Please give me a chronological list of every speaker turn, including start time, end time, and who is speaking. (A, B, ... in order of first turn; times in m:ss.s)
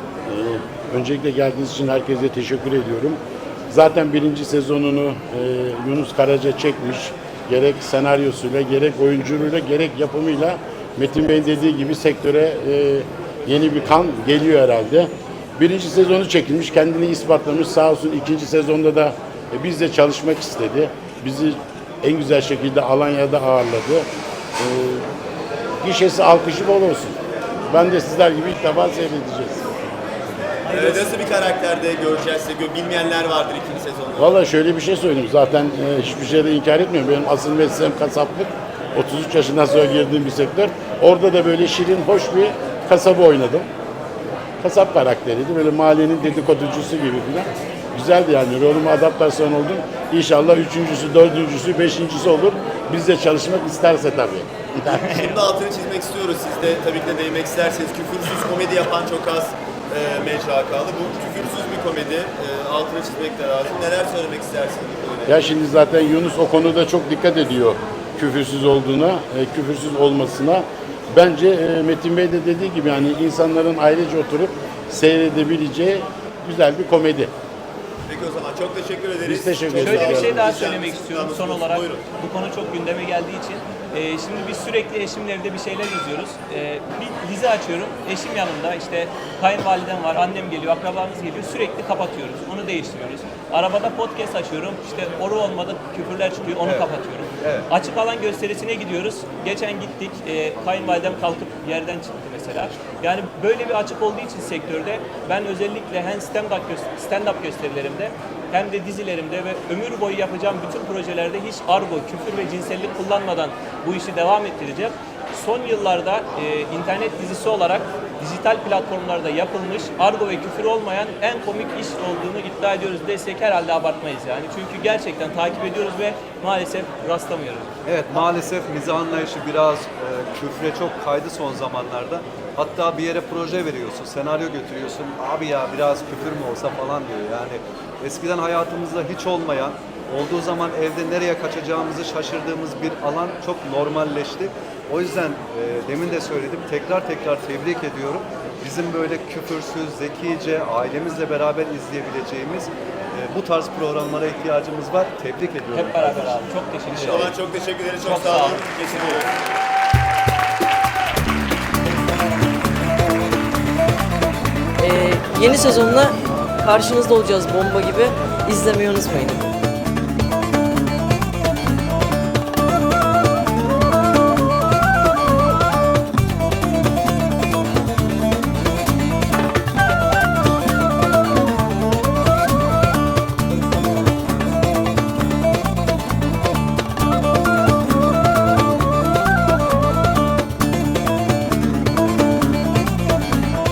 0:00.3-0:24.1 A
0:24.6-0:25.1 A
0:25.8-0:27.2 A
0:27.7-0:29.7 A
0:30.7-0:34.4 B
0:34.2-0:43.7 A
0:44.6-0:55.0 A
0:54.8-1:05.5 B
0:55.1-0:55.4 C
1:05.3-1:17.3 A
1:18.1-1:22.0 B
1:19.2-1:20.6 A
1:19.8-2:07.7 C
1:36.6-1:36.9 D
1:37.4-1:37.7 D
2:07.8-2:36.4 D
2:35.7-2:37.4 C
2:36.8-2:39.3 B
2:38.0-2:38.7 C
2:44.8-2:49.4 E